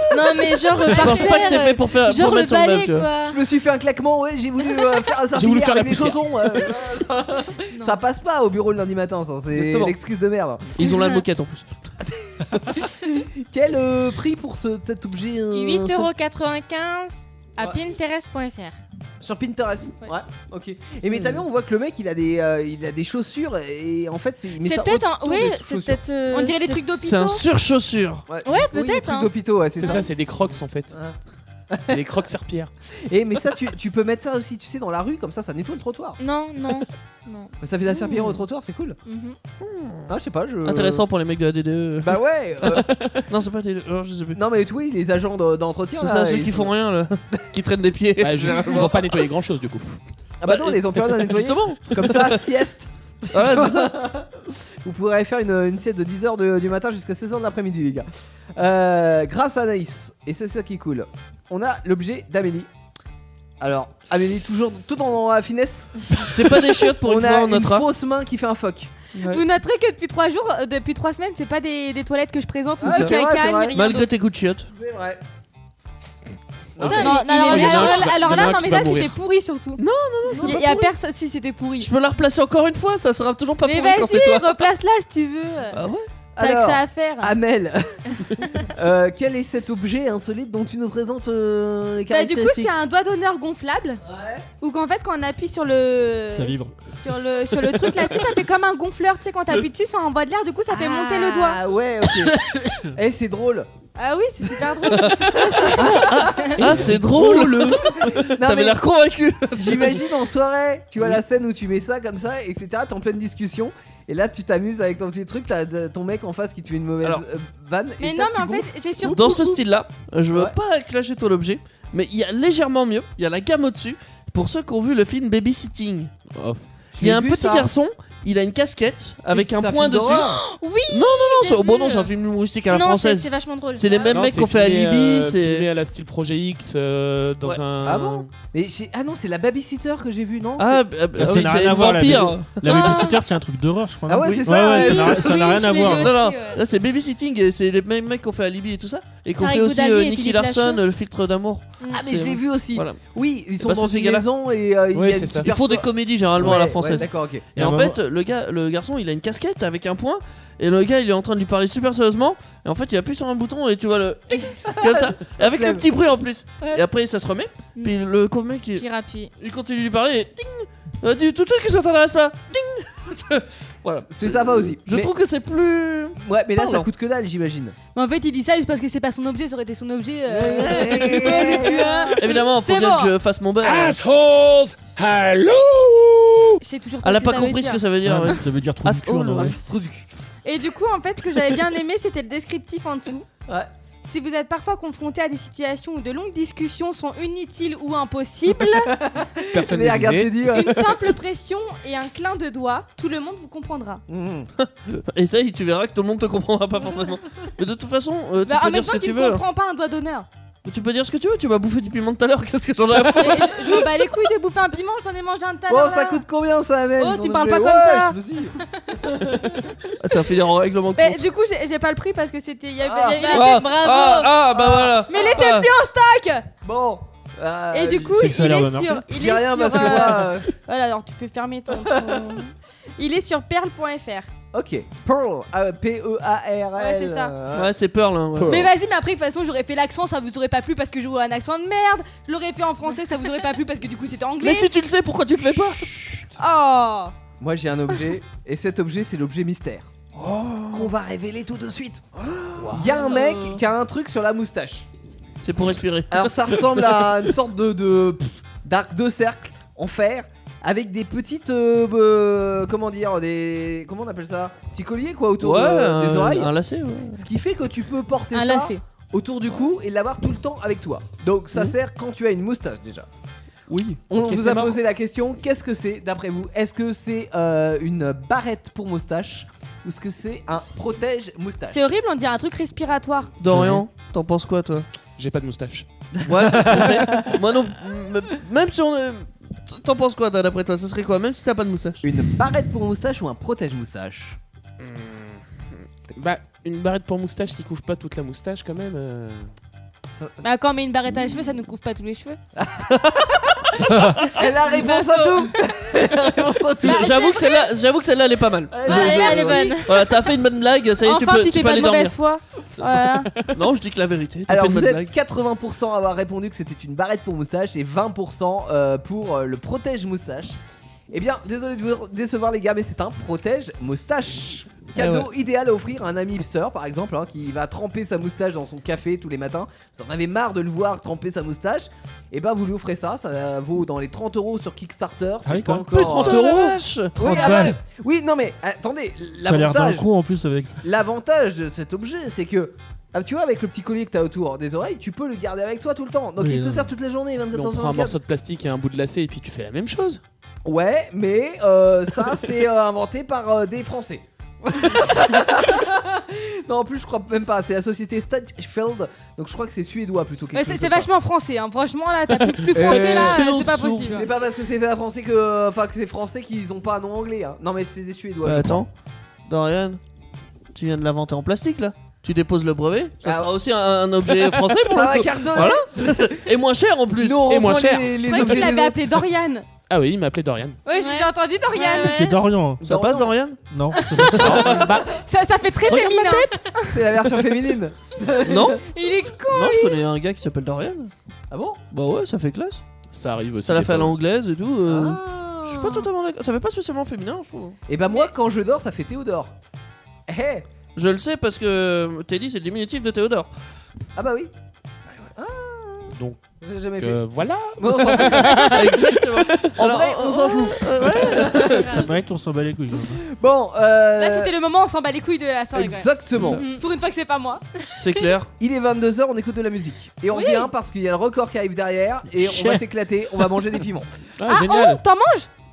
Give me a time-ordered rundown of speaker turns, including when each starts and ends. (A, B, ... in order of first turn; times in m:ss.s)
0:00.1-0:03.4 A
0:00.8-0:03.1 B
0:00.9-0:01.5 C
0:03.2-0:10.8 D
0:05.3-0:06.2 E
0:09.5-0:09.9 B
0:10.8-0:11.9 B
0:10.8-0:11.2 A
0:12.0-0:16.1 D
0:12.5-0:12.8 B
0:15.5-0:18.8 A
0:19.2-0:26.0 D
0:24.6-0:26.8 A
0:26.3-0:27.4 C
0:27.0-0:28.2 B
0:28.3-0:30.1 D
0:28.4-0:30.0 A
0:29.8-0:30.9 E
0:30.9-0:31.2 D
0:31.7-0:32.0 D
0:31.8-0:32.7 E
0:33.0-0:36.2 D
0:36.2-0:38.3 A
0:37.6-0:39.0 D
0:39.0-0:39.4 A
0:39.6-0:44.4 B
0:40.1-0:41.0 D
0:42.0-0:43.0 D
0:44.3-0:46.7 D
0:46.0-0:49.2 B
0:48.2-0:50.0 E
0:50.4-1:02.7 D
0:50.4-0:52.4 B
0:53.3-0:54.0 B
1:03.6-1:09.4 D
1:06.2-1:07.8 B
1:09.2-1:14.1 C
1:12.8-1:13.9 D
1:12.8-1:13.2 B
1:13.7-1:14.7 B
1:14.7-1:15.2 D
1:16.8-1:17.2 D
1:16.8-1:19.2 E
1:16.8-1:18.2 A
1:16.9-1:19.8 C
1:19.8-1:20.9 B
1:20.3-1:20.6 D
1:20.4-1:21.9 C
1:21.8-1:24.6 B
1:23.6-1:25.8 C
1:25.7-1:26.0 B
1:26.4-1:28.0 D
1:26.4-1:27.3 C
1:28.6-1:32.7 D
1:32.1-1:34.0 C
1:34.0-1:34.4 D
1:34.6-1:41.6 C
1:36.3-1:36.7 F
1:40.7-1:42.3 D
1:42.9-1:43.7 D
1:44.0-1:46.5 C
1:45.0-1:50.1 B
1:45.4-1:48.8 D
1:46.7-1:47.2 F
1:49.5-1:59.2 D
1:58.0-1:59.6 C
1:59.0-2:06.1 B
2:06.3-2:06.6 E
2:06.9-2:07.7 D
2:07.0-2:15.7 B
2:09.3-2:10.4 D
2:10.5-2:12.1 A
2:12.7-2:14.2 A
2:14.0-2:18.3 E
2:17.8-2:22.4 D
2:20.6-2:23.1 B
2:21.2-2:26.2 F
2:22.6-2:23.2 A
2:24.1-2:25.4 D
2:24.2-2:24.7 B
2:24.6-2:26.6 A
2:25.8-2:33.0 B
2:29.4-2:30.8 A
2:31.9-2:37.4 D
2:33.6-2:34.2 B
2:34.9-2:35.5 E
2:35.4-2:48.8 B
2:37.6-2:38.0 F
2:44.6-2:45.8 D
2:48.8-2:49.3 A
2:49.4-2:56.9 B
2:54.1-2:55.1 D
2:56.2-2:57.7 D
2:57.9-3:03.1 C
3:00.3-3:02.2 D
3:00.9-3:01.6 B
3:02.2-3:04.0 B
3:03.6-3:06.5 G
3:06.6-3:07.8 C
3:07.0-3:09.5 B
3:08.0-3:09.6 F
3:09.3-3:10.1 D
3:10.4-3:13.3 C
3:14.0-3:18.9 C
3:18.6-3:21.1 D
3:19.5-3:20.3 E
3:20.5-3:24.0 C
3:24.1-3:24.5 D
3:24.6-3:29.4 B
3:28.4-3:30.3 C
3:30.6-3:33.9 B
3:33.2-3:36.2 C
3:35.7-3:39.8 D
3:37.0-3:38.2 C
3:40.0-3:41.2 B
3:41.0-3:44.3 C
3:42.8-3:43.4 D
3:43.3-3:44.1 A
3:43.3-3:45.7 B
3:44.5-3:45.1 D
3:45.1-3:46.4 C
3:46.6-3:48.4 D
3:47.7-3:54.3 C
3:48.1-3:49.1 F
3:49.1-3:50.5 D
3:51.8-3:52.4 D
3:54.5-3:57.7 D
3:56.8-3:57.3 C
3:57.5-3:58.7 B
3:58.4-3:58.7 E
3:58.5-4:04.7 C
4:04.4-4:06.0 B
4:05.4-4:06.3 D
4:06.4-4:07.1 C
4:07.4-4:09.9 D
4:10.2-4:10.9 B
4:10.7-4:12.1 D
4:12.2-4:13.6 B
4:12.6-4:14.9 D
4:15.4-4:17.3 B
4:16.1-4:26.5 D
4:25.4-4:27.2 B
4:27.1-4:33.1 D
4:28.3-4:28.8 C
4:34.1-4:41.9 D
4:34.1-4:34.8 E
4:41.7-4:43.3 C
4:43.4-4:44.9 B
4:43.5-4:43.8 F
4:45.2-4:45.9 E
4:46.1-4:47.4 D
4:46.2-4:52.0 B
4:52.0-4:54.4 D
4:54.8-4:55.4 E
4:56.1-4:59.5 E
5:00.1-5:00.4 D
5:00.4-5:02.4 C
5:02.5-5:07.3 D
5:04.4-5:05.5 C
5:06.8-5:12.1 B
5:07.0-5:07.4 C
5:08.7-5:09.8 D
5:08.8-5:09.9 A
5:08.9-5:10.0 C
5:11.0-5:13.3 C
5:13.4-5:15.1 B
5:14.5-5:20.6 D
5:21.1-5:40.1 D
5:24.9-5:25.3 B
5:35.4-5:36.2 F
5:35.9-5:37.6 B
5:37.2-5:37.8 F
5:39.4-5:40.8 F
5:40.8-5:48.2 D
5:46.4-5:46.9 F
5:47.5-5:50.2 E
5:50.6-6:01.1 D
6:00.5-6:04.2 C
6:02.6-6:04.3 B
6:02.7-6:03.4 D
6:04.0-6:08.9 D
6:08.4-6:08.9 B
6:09.5-6:10.0 B
6:10.7-6:17.5 B
6:13.2-6:13.5 D
6:14.2-6:16.4 D
6:17.2-6:19.0 D
6:17.4-6:18.7 E
6:18.2-6:19.6 C
6:19.9-6:20.8 E
6:20.8-6:22.3 C
6:20.9-6:22.3 A
6:22.0-6:22.8 F
6:22.8-6:23.3 D
6:22.8-6:23.6 B
6:23.7-6:24.8 F
6:24.0-6:26.8 C
6:24.2-6:25.2 E
6:25.8-6:26.2 E
6:26.1-6:26.5 A
6:26.8-6:28.8 D
6:28.4-6:28.8 B
6:28.9-6:30.0 C
6:29.5-6:31.1 B
6:31.5-6:31.8 D
6:31.9-6:32.8 B
6:33.1-6:34.1 E
6:33.6-6:37.8 B
6:34.8-6:36.1 D
6:37.9-6:39.5 D
6:40.3-6:40.7 D
6:41.0-6:43.5 B
6:44.2-6:44.5 D
6:45.2-6:47.2 D
6:46.1-6:46.4 E
6:47.0-6:49.2 E
6:47.8-6:52.0 D
6:48.5-6:52.0 B
6:51.9-6:53.2 F
6:53.3-6:54.5 D
6:54.2-6:57.6 C
6:55.7-6:56.6 D
6:56.4-6:56.8 A
6:58.0-6:58.5 B
6:58.6-7:04.1 D
7:00.3-7:00.7 C
7:02.3-7:02.8 F
7:04.4-7:05.0 E
7:04.4-7:05.5 C